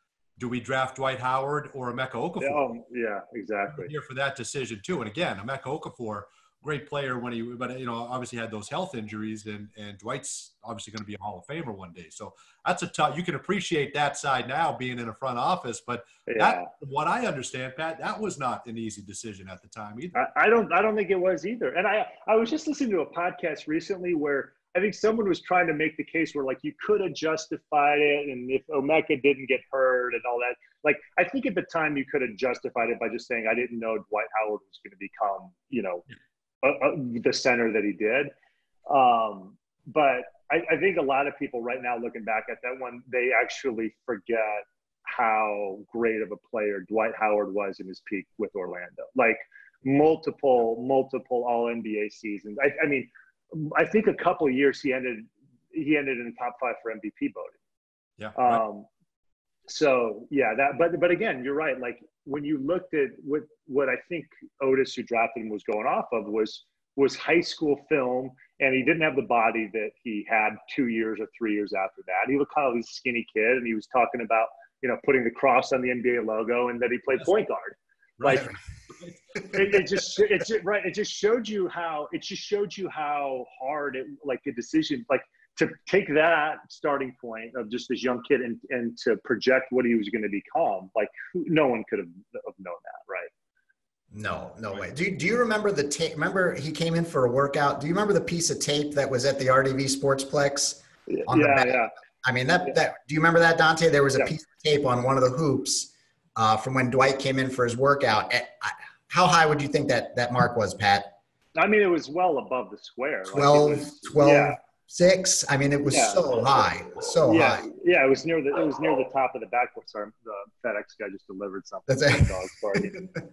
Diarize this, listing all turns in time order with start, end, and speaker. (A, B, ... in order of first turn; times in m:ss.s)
0:00.4-0:02.6 A
0:02.4-0:03.9 B
0:03.7-0:20.1 A
0:16.3-0:16.7 B
0:20.1-0:36.0 B
0:36.6-0:38.3 B
0:38.9-0:57.6 B
0:58.2-0:58.6 A
0:58.4-0:58.9 B
0:59.7-1:18.5 B
1:18.2-1:19.2 A
1:19.5-1:33.3 B
1:34.1-1:51.1 C
1:41.1-1:41.9 B
1:51.6-1:54.6 B
1:53.3-1:57.6 C
1:55.9-1:56.4 B
1:57.3-2:03.1 B
2:01.9-2:03.0 C